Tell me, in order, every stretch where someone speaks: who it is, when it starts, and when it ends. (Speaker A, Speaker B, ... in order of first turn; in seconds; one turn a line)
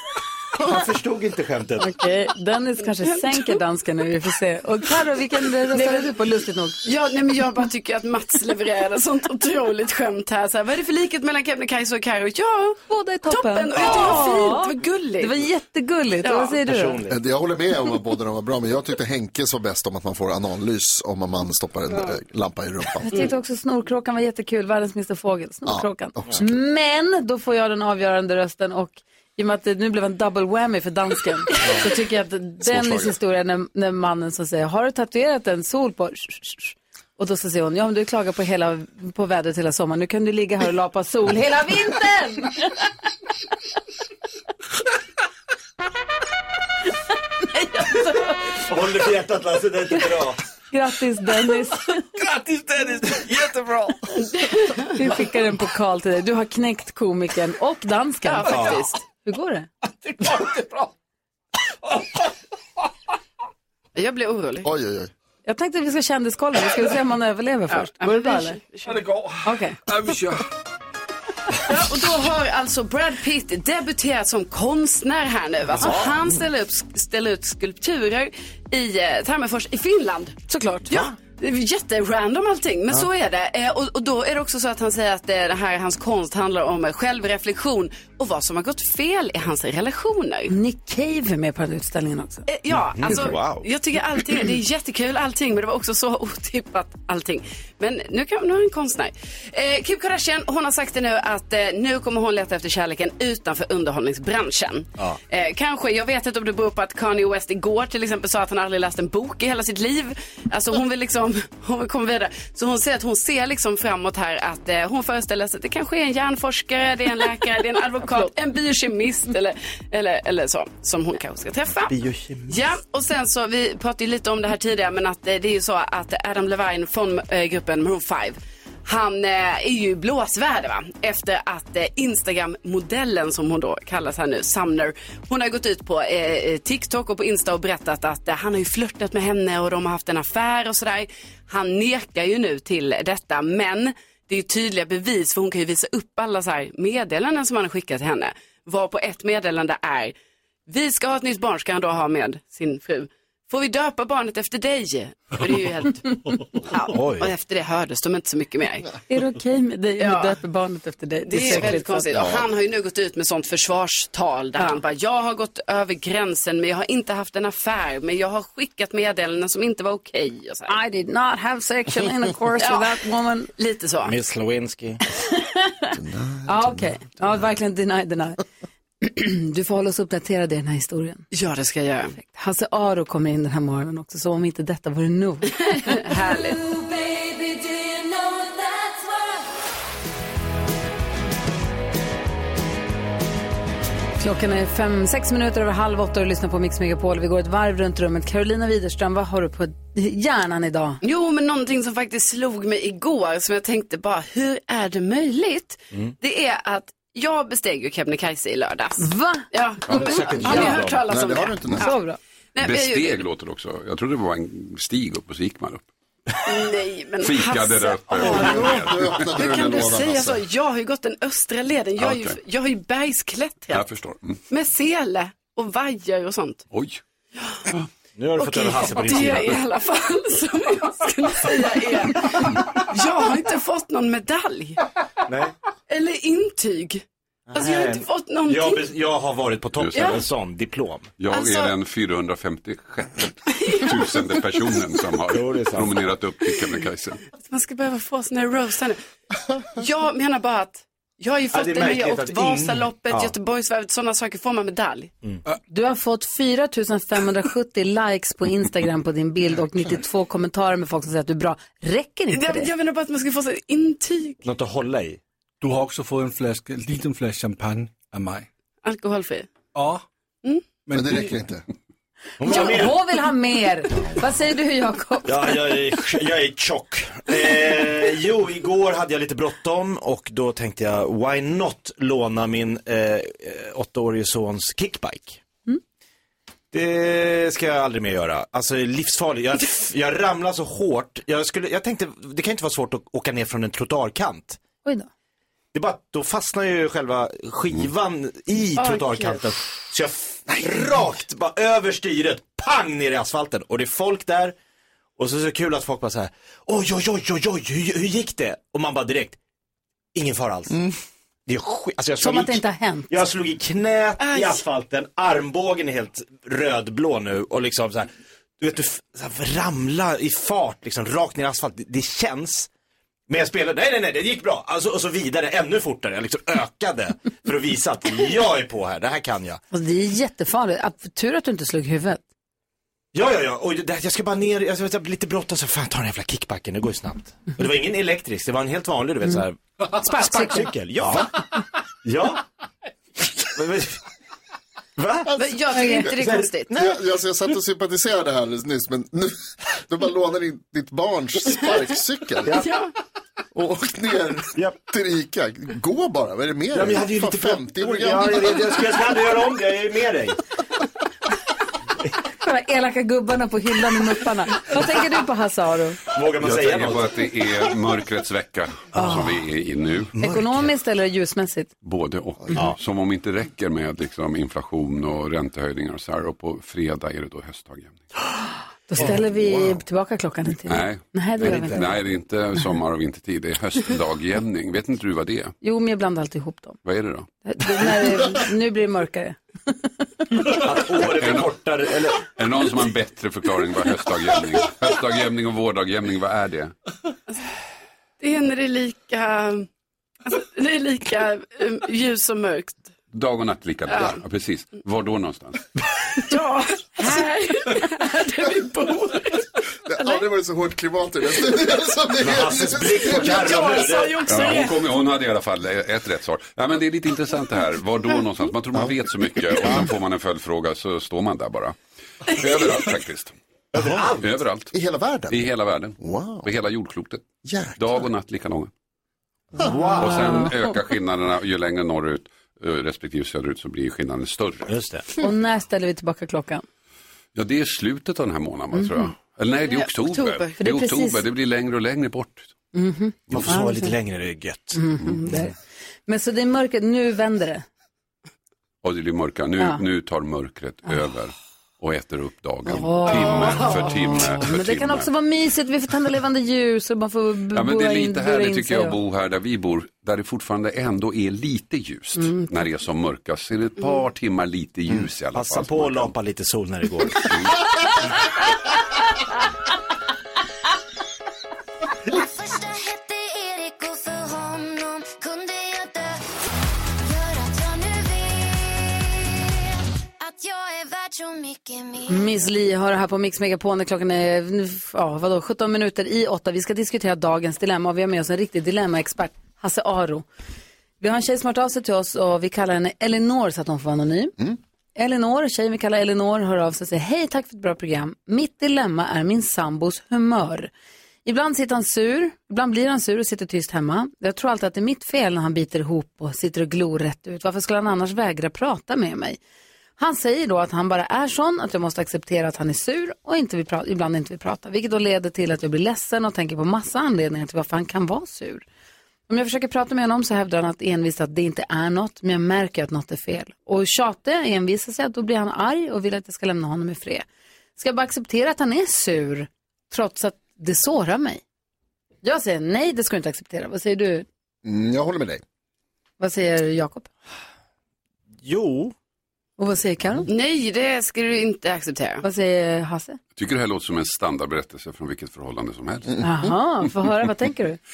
Speaker A: 0.6-1.9
Speaker B: 1.8-6.8
Speaker C: 3.0-3.5
Speaker C: 5.7-6.1
Speaker C: 6.8-15.4
Speaker B: 12.9-17.0
Speaker C: 16.2-16.6
Speaker A: 16.6-17.2
Speaker D: 17.1-23.1
Speaker B: 23.0-42.7
Speaker D: 25.6-26.5
Speaker D: 32.6-33.1
Speaker B: 47.6-48.3
Speaker A: 48.6-50.4
Speaker B: 50.7-52.1
Speaker E: 52.1-54.1
Speaker C: 54.2-54.9
Speaker B: 54.9-59.7
Speaker C: 58.2-59.0
Speaker A: 58.5-58.8
Speaker E: 60.0-60.9
Speaker C: 63.9-64.7
Speaker D: 64.6-65.1
Speaker B: 65.4-68.6
Speaker C: 67.7-69.0
Speaker E: 68.8-70.5
Speaker B: 69.4-69.8
Speaker C: 71.7-90.5
Speaker A: 75.8-76.2
Speaker B: 80.5-80.9
Speaker B: 90.5-92.5
Speaker C: 92.5-121.9
Speaker A: 92.7-93.7
Speaker A: 121.9-122.6
Speaker C: 122.5-150.1
Speaker C: 150.7-158.9
Speaker A: 156.9-157.3
Speaker B: 159.1-162.1
Speaker C: 160.0-160.4
Speaker C: 161.2-170.7
Speaker D: 162.1-162.4
Speaker B: 170.7-173.5
Speaker C: 172.6-173.0
Speaker C: 173.6-174.2
Speaker A: 174.0-175.0
Speaker B: 175.3-175.9
Speaker D: 175.9-176.9
Speaker B: 176.4-178.4
Speaker B: 179.0-181.2
Speaker C: 181.3-182.2
Speaker B: 182.2-186.3
Speaker C: 185.5-186.6
Speaker F: 186.6-189.4
Speaker B: 194.2-201.0
Speaker C: 201.0-212.0
Speaker B: 209.0-209.5
Speaker A: 209.9-211.0
Speaker D: 211.1-211.9
Speaker B: 211.8-212.2
Speaker C: 212.5-213.2
Speaker G: 212.6-215.8
Speaker C: 216.4-223.8
Speaker G: 217.2-219.2
Speaker D: 218.3-220.4
Speaker G: 222.0-222.4
Speaker G: 223.7-224.4
Speaker C: 224.5-226.7
Speaker G: 226.7-227.0
Speaker C: 227.4-227.6
Speaker A: 228.2-229.6
Speaker C: 228.4-234.8
Speaker A: 235.3-235.5
Speaker C: 235.9-237.0
Speaker A: 237.5-241.1
Speaker C: 237.5-238.9
Speaker G: 239.8-240.1
Speaker C: 239.9-240.2
Speaker G: 241.2-247.2
Speaker C: 241.3-241.7
Speaker C: 243.5-244.0
Speaker A: 245.3-246.1
Speaker C: 247.3-249.0
Speaker C: 249.8-255.1
Speaker A: 251.5-253.3
Speaker B: 255.7-262.7
Speaker C: 262.3-264.4
Speaker A: 264.4-265.2
Speaker E: 265.6-268.5
Speaker C: 268.8-269.5
Speaker E: 269.7-270.0
Speaker C: 270.4-270.8
Speaker E: 270.8-271.3
Speaker D: 270.9-271.6
Speaker A: 272.4-272.9
Speaker B: 272.4-275.6
Speaker A: 275.2-285.4
Speaker A: 286.7-294.6
Speaker A: 295.7-304.5
Speaker C: 298.8-299.4
Speaker A: 305.2-309.4
Speaker A: 310.1-310.9
Speaker A: 311.5-322.7
Speaker B: 312.2-313.1
Speaker C: 314.2-314.6
Speaker A: 323.3-329.6
Speaker B: 329.7-332.2
Speaker A: 333.1-341.4
Speaker B: 340.1-340.7
Speaker A: 342.0-342.4
Speaker A: 343.4-344.0
Speaker A: 345.0-345.3
Speaker C: 345.3-346.7
Speaker B: 345.7-346.1
Speaker A: 346.1-346.9
Speaker D: 346.7-352.6
Speaker C: 352.6-352.9
Speaker D: 353.5-359.0
Speaker A: 356.7-360.4
Speaker B: 362.4-366.0
Speaker A: 366.1-367.1
Speaker G: 366.4-370.1
Speaker B: 368.9-369.3
Speaker B: 370.2-371.7
Speaker G: 371.8-378.0
Speaker B: 378.9-381.9
Speaker D: 379.4-379.8
Speaker G: 380.6-385.5
Speaker A: 381.4-381.8
Speaker B: 385.6-386.8
Speaker G: 386.8-387.3
Speaker B: 387.4-389.4
Speaker A: 390.5-392.2
Speaker G: 390.9-391.5
Speaker G: 392.4-396.7
Speaker C: 398.2-399.7
Speaker C: 400.2-402.9
Speaker G: 403.1-405.6
Speaker C: 403.9-404.2
Speaker C: 406.2-409.5
Speaker D: 409.9-413.5
Speaker A: 412.2-414.5
Speaker C: 413.2-414.8
Speaker G: 414.2-421.8
Speaker D: 418.7-419.8
Speaker G: 422.3-423.3
Speaker A: 423.7-424.3
Speaker D: 423.8-424.1
Speaker G: 424.2-424.7
Speaker D: 424.7-426.5
Speaker G: 425.3-428.7
Speaker D: 427.4-428.1
Speaker B: 429.6-430.5
Speaker A: 429.6-430.4
Speaker G: 429.9-434.7
Speaker A: 434.7-435.1
Speaker B: 435.2-436.6
Speaker G: 437.3-442.5
Speaker B: 438.8-439.0
Speaker C: 439.7-440.6
Speaker B: 440.6-441.2
Speaker B: 442.7-443.9
Speaker A: 443.3-445.4
Speaker B: 444.7-445.5
Speaker B: 446.1-447.6
Speaker G: 448.8-455.1
Speaker B: 452.6-458.9
Speaker C: 453.0-453.9
Speaker G: 457.5-466.1
Speaker B: 462.2-462.5
Speaker A: 465.3-467.3
Speaker G: 467.2-467.5
Speaker F: 472.1-476.3
Speaker F: 477.0-479.5
Speaker F: 480.2-482.4
Speaker B: 482.1-490.2
Speaker B: 491.0-494.4
Speaker B: 494.9-500.7
Speaker B: 501.2-509.4
Speaker B: 510.0-518.6
Speaker B: 519.3-527.2
Speaker B: 527.8-531.4
Speaker B: 532.2-534.2
Speaker D: 534.6-535.4
Speaker B: 536.2-537.1
Speaker A: 538.4-538.9
Speaker B: 539.6-540.3
Speaker C: 540.3-542.2
Speaker B: 542.2-543.2
Speaker G: 543.3-546.2
Speaker D: 546.1-546.3
Speaker B: 546.2-547.8